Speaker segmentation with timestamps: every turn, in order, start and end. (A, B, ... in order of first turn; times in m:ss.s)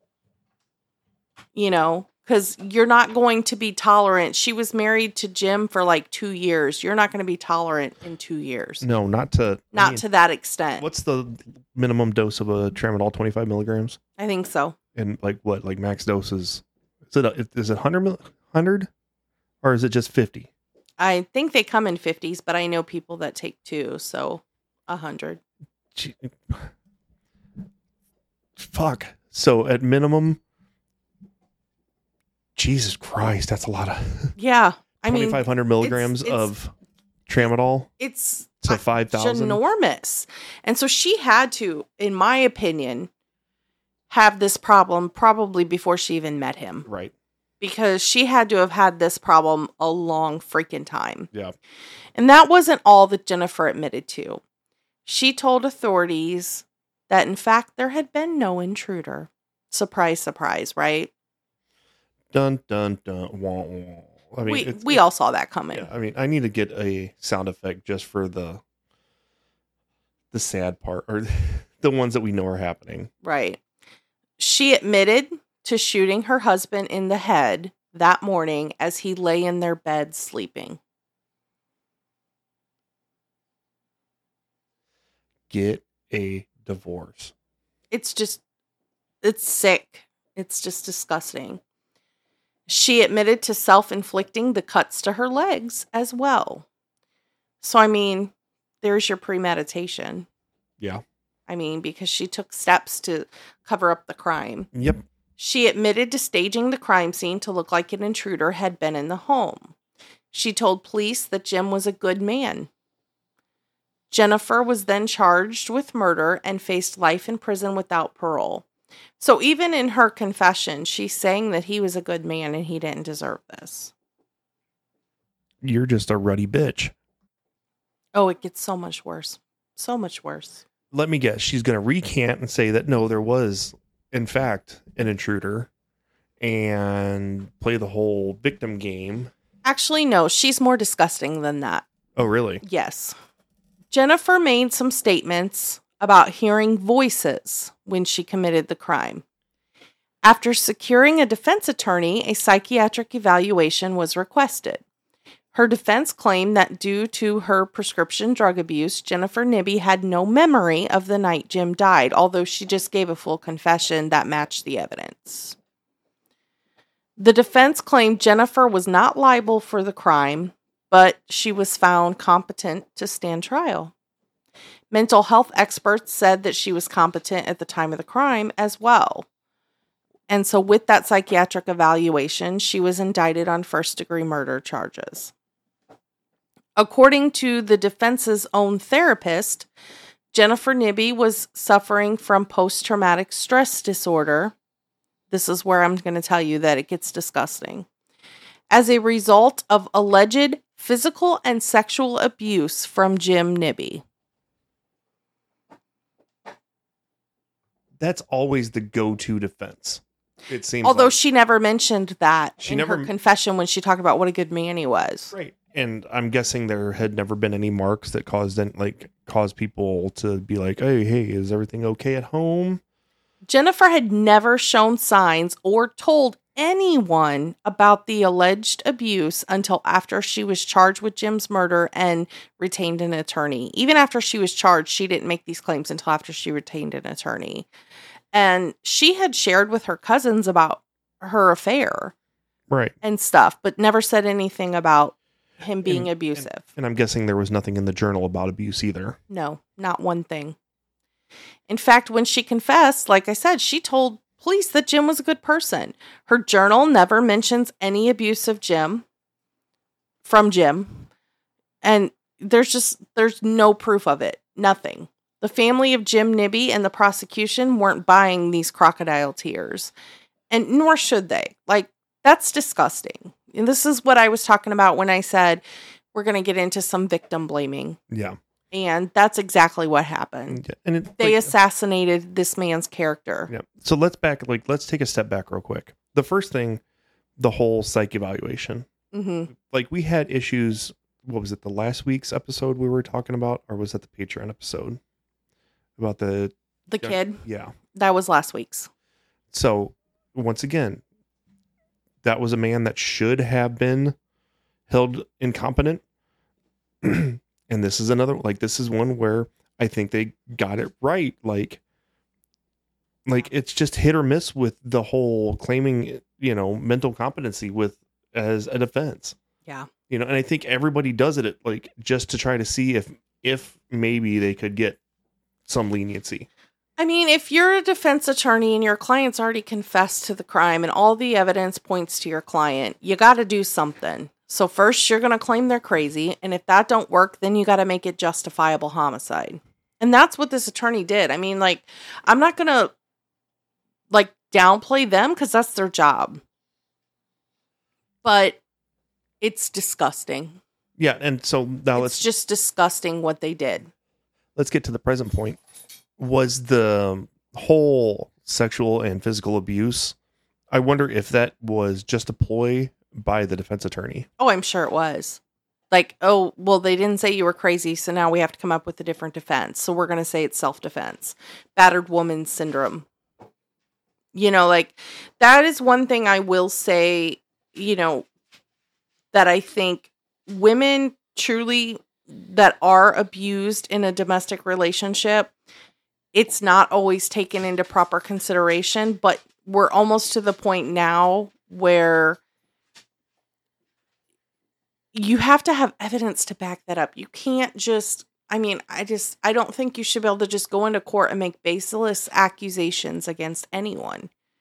0:01.5-0:08.8 A
0:08.8-0:10.0 B
0:09.7-0:10.8 A
0:10.8-0:14.0 B
0:14.2-0:14.8 A
0:14.9-0:18.9 B
0:19.6-0:20.5 B
0:21.0-0:25.4 A
0:25.9-0:26.7 B
0:28.6-0:30.4 B
0:32.6-0:34.3 B
0:34.4-0:36.5 A
0:35.1-0:36.7 B
0:37.3-0:37.9 B
0:38.0-0:43.1 A
0:38.6-0:39.6 B
0:44.1-0:46.8 A
0:46.8-0:47.1 B
0:47.6-0:51.3 A
0:52.1-0:54.4 A
0:55.0-1:01.1 A
1:02.3-1:05.0 B
1:04.4-1:05.9 A
1:05.7-1:08.6 B
1:10.3-1:13.1 B
1:13.2-1:13.6 A
1:14.4-1:20.8 A
1:25.5-1:27.3 B
1:27.9-1:28.4 A
1:29.2-1:31.6 A
1:32.7-1:36.6 A
1:37.6-1:40.2 A
1:41.5-1:44.7 A
1:44.7-1:45.0 B
1:45.4-1:49.7 A
1:50.3-1:52.7 A
1:54.1-1:58.6 A
1:59.2-2:03.9 A
2:05.6-2:06.9 B
2:08.1-2:10.6 A
2:10.9-2:15.7 B
2:16.4-2:19.3 B
2:19.6-2:21.8 A
2:22.2-2:22.6 B
2:22.6-2:23.2 A
2:23.9-2:29.2 A
2:30.2-2:34.8 A
2:35.5-2:45.6 A
2:47.2-2:53.9 A
2:54.9-2:59.2 A
3:00.3-3:05.3 A
3:06.8-3:09.7 A
3:10.3-3:14.5 A
3:15.3-3:17.9 A
3:18.7-3:24.0 A
3:28.0-3:31.1 B
3:30.8-3:35.3 A
3:32.6-3:33.1 B
3:35.3-3:42.8 B
3:43.4-3:57.7 A
3:58.3-4:02.1 A
4:02.7-4:02.9 B
4:03.0-4:06.7 A
4:05.8-4:09.2 B
4:09.3-4:10.6 A
4:11.7-4:19.0 A
4:20.2-4:21.1 A
4:21.8-4:29.9 A
4:30.5-4:38.0 A
4:38.1-4:38.4 B
4:38.7-4:40.6 A
4:40.5-4:41.5 B
4:41.2-4:43.5 A
4:43.5-4:46.8 B
4:47.4-4:48.8 B
4:49.1-4:49.5 A
4:49.5-4:55.0 B
4:56.0-4:57.8 B
4:56.9-4:57.4 A
4:57.9-4:58.9 A
4:59.5-5:01.0 B
5:02.2-5:04.2 B
5:04.9-5:06.0 B
5:07.0-5:11.8 B
5:13.2-5:19.4 B
5:20.1-5:25.0 B
5:25.6-5:26.5 B
5:27.0-5:42.9 A
5:44.1-5:46.4 A
5:48.2-5:48.6 A
5:49.4-5:50.6 A
5:51.0-5:52.2 B
5:52.0-5:53.9 A
5:54.6-5:55.6 B
5:56.2-6:00.1 B
6:00.7-6:04.3 B
6:04.4-6:05.4 A
6:05.9-6:13.0 A
6:14.3-6:18.3 A
6:19.3-6:25.5 A
6:26.3-6:32.4 A
6:35.1-6:44.3 A